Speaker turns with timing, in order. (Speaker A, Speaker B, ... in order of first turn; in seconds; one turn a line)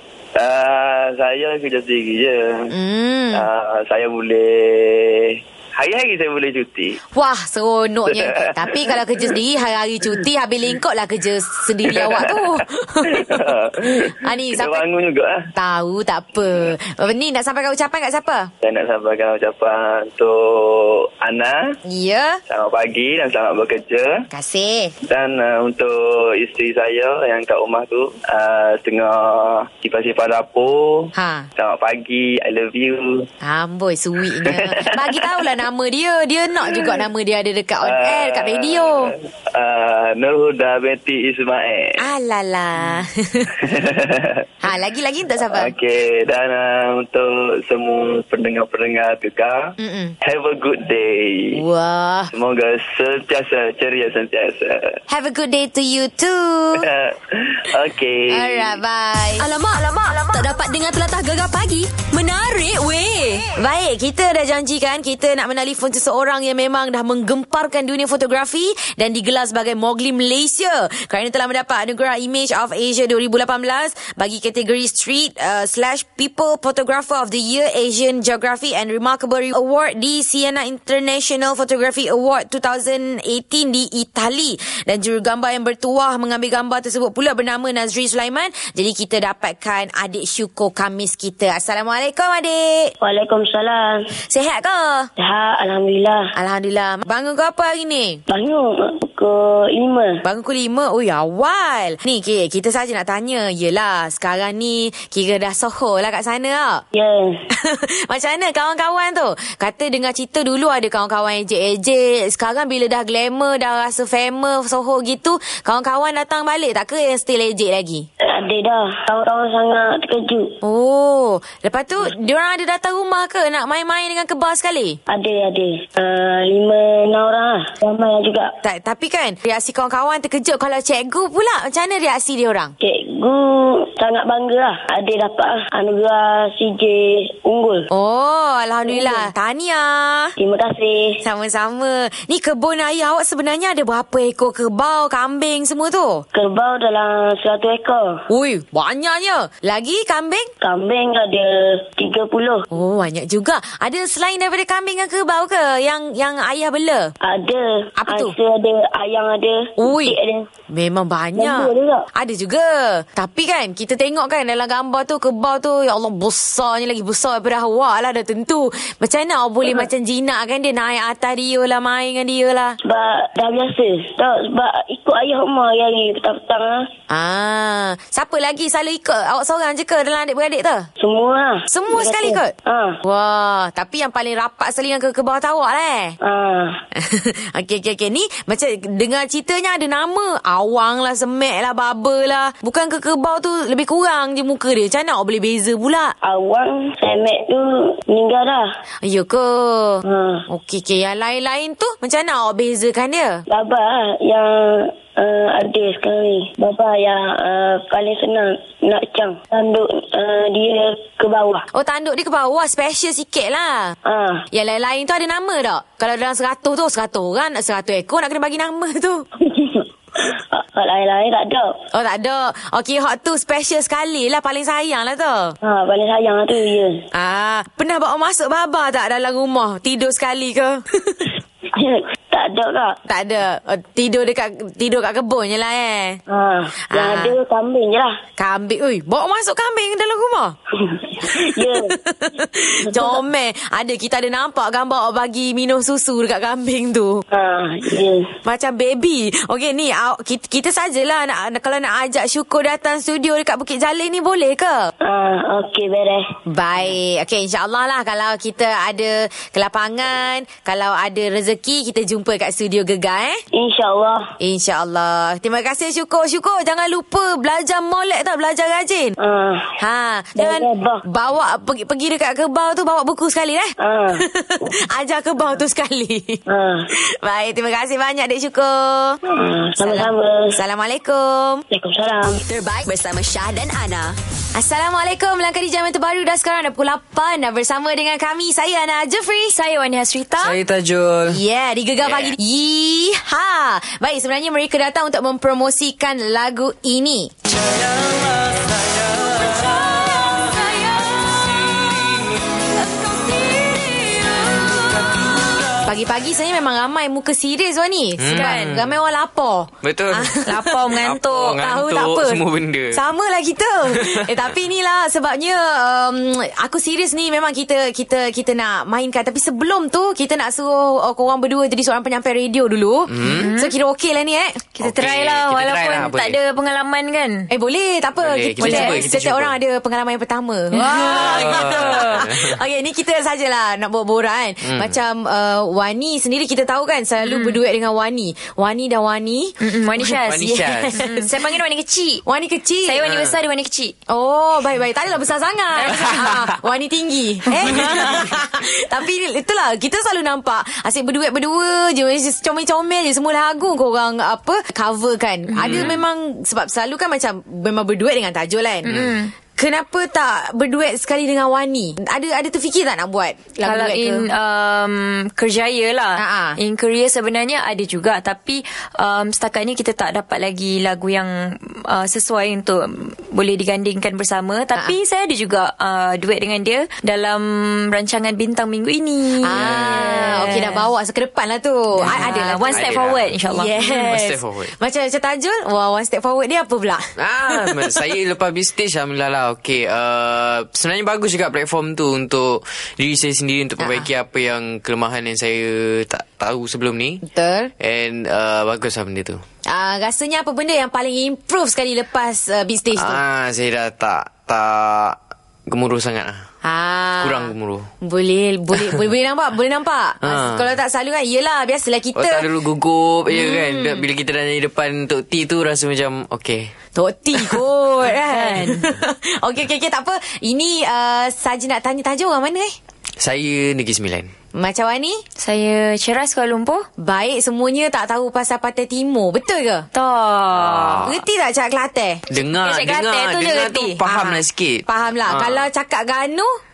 Speaker A: 0.3-2.7
Speaker B: 2.7-3.5
Speaker A: 3.3-7.0
Speaker B: 7.1-13.5
Speaker A: 8.2-9.1
Speaker A: 11.8-15.4
Speaker B: 14.0-14.8
Speaker B: 15.6-18.5
Speaker A: 18.6-21.6
Speaker B: 21.9-22.4
Speaker A: 22.5-24.2
Speaker B: 24.3-24.9
Speaker A: 25.1-33.2
Speaker B: 31.2-31.5
Speaker B: 33.4-39.1
Speaker A: 34.3-35.6
Speaker A: 37.8-42.1
Speaker B: 42.0-43.6
Speaker A: 43.7-44.4
Speaker B: 44.6-45.7
Speaker A: 45.5-51.6
Speaker B: 49.8-50.1
Speaker B: 51.5-52.3
Speaker A: 52.3-54.8
Speaker B: 55.1-56.9
Speaker A: 56.8-58.8
Speaker B: 58.3-59.5
Speaker C: 59.4-63.5
Speaker B: 63.5-92.9
Speaker D: 93.0-94.0
Speaker B: 94.3-95.1
Speaker D: 95.2-96.2
Speaker B: 96.3-98.2
Speaker D: 98.3-100.2
Speaker B: 100.2-106.8
Speaker D: 106.9-107.4
Speaker B: 107.5-118.1
Speaker D: 118.3-120.5
Speaker B: 120.6-125.0
Speaker D: 125.1-128.5
Speaker B: 128.6-132.7
Speaker D: 132.8-137.9
Speaker B: 137.9-140.3
Speaker D: 138.9-139.3
Speaker D: 140.4-141.1
Speaker B: 141.2-146.2
Speaker D: 146.3-148.1
Speaker B: 148.3-150.5
Speaker D: 150.6-152.7
Speaker B: 152.7-157.1
Speaker D: 157.2-160.5
Speaker B: 158.0-158.3
Speaker B: 159.8-160.2
Speaker B: 160.7-172.8
Speaker D: 161.4-162.1
Speaker D: 172.8-176.8
Speaker B: 177.1-180.9
Speaker D: 181.0-182.9
Speaker B: 181.7-186.2
Speaker D: 186.2-186.8
Speaker B: 186.9-196.1
Speaker D: 196.2-198.7
Speaker B: 199.0-203.4
Speaker D: 200.1-200.4
Speaker D: 203.5-211.6
Speaker B: 211.7-213.9
Speaker D: 214.1-214.4
Speaker B: 214.5-219.2
Speaker D: 219.4-221.8
Speaker B: 221.9-225.6
Speaker D: 225.6-227.0
Speaker B: 227.1-231.3
Speaker D: 231.7-232.9
Speaker B: 233.1-236.2
Speaker D: 236.3-238.1
Speaker B: 236.9-237.4
Speaker B: 238.4-240.6
Speaker D: 240.8-241.9
Speaker B: 241.2-247.2
Speaker D: 242.8-243.2
Speaker D: 247.3-248.3
Speaker B: 248.4-254.9
Speaker D: 255.1-256.3
Speaker B: 256.5-263.4
Speaker D: 263.5-264.3
Speaker B: 264.4-269.2
Speaker D: 269.2-269.7
Speaker B: 269.8-276.4
Speaker D: 270.4-271.0
Speaker D: 273.8-274.2
Speaker D: 276.5-276.8
Speaker B: 277.1-279.2
Speaker D: 279.3-280.5
Speaker B: 279.8-281.6
Speaker D: 281.7-282.4
Speaker C: 282.5-284.2
Speaker B: 284.6-289.6
Speaker E: 289.5-290.6
Speaker F: 290.4-291.4
Speaker B: 291.2-297.3
Speaker F: 292.0-292.4
Speaker F: 298.4-298.9
Speaker E: 299.4-301.9
Speaker E: 302.6-305.7
Speaker B: 305.8-310.8
Speaker F: 308.2-308.9
Speaker E: 308.3-308.8
Speaker F: 309.8-313.0
Speaker E: 310.4-311.5
Speaker B: 311.4-324.7
Speaker F: 313.9-314.4
Speaker F: 323.1-323.5
Speaker E: 323.2-323.8
Speaker E: 324.8-327.5
Speaker F: 324.8-326.4
Speaker B: 327.5-341.3
Speaker F: 328.2-329.6
Speaker E: 328.6-329.0
Speaker E: 330.7-331.1
Speaker F: 330.8-332.6
Speaker F: 334.6-334.9
Speaker E: 337.2-337.6
Speaker E: 339.6-342.2
Speaker F: 340.3-341.0
Speaker B: 342.2-343.1
Speaker E: 342.9-343.9
Speaker F: 343.0-343.4
Speaker B: 344.1-364.3
Speaker E: 345.8-346.4
Speaker F: 347.8-348.2
Speaker E: 355.5-355.9
Speaker F: 355.6-356.0
Speaker E: 358.9-359.4
Speaker E: 363.6-380.9
Speaker B: 366.2-366.6
Speaker B: 379.4-382.9
Speaker F: 379.5-380.3
Speaker F: 382.0-383.4
Speaker E: 382.1-384.0
Speaker B: 383.5-388.0
Speaker F: 383.9-384.7
Speaker F: 387.2-397.2
Speaker B: 393.8-394.1
Speaker B: 397.2-397.7
Speaker F: 397.8-399.4
Speaker B: 399.7-403.2
Speaker F: 402.9-406.4
Speaker B: 406.6-407.5
Speaker F: 407.2-407.9
Speaker B: 408.0-412.5
Speaker F: 410.2-410.7
Speaker F: 412.1-416.7
Speaker B: 413.3-414.0
Speaker B: 416.9-422.8
Speaker E: 418.3-418.8
Speaker F: 423.2-424.3
Speaker B: 424.6-425.2
Speaker E: 425.4-426.9
Speaker B: 427.0-429.9
Speaker E: 429.9-431.1
Speaker F: 430.5-431.2
Speaker B: 431.1-432.2
Speaker F: 432.3-435.6
Speaker E: 432.6-434.0
Speaker B: 434.0-436.5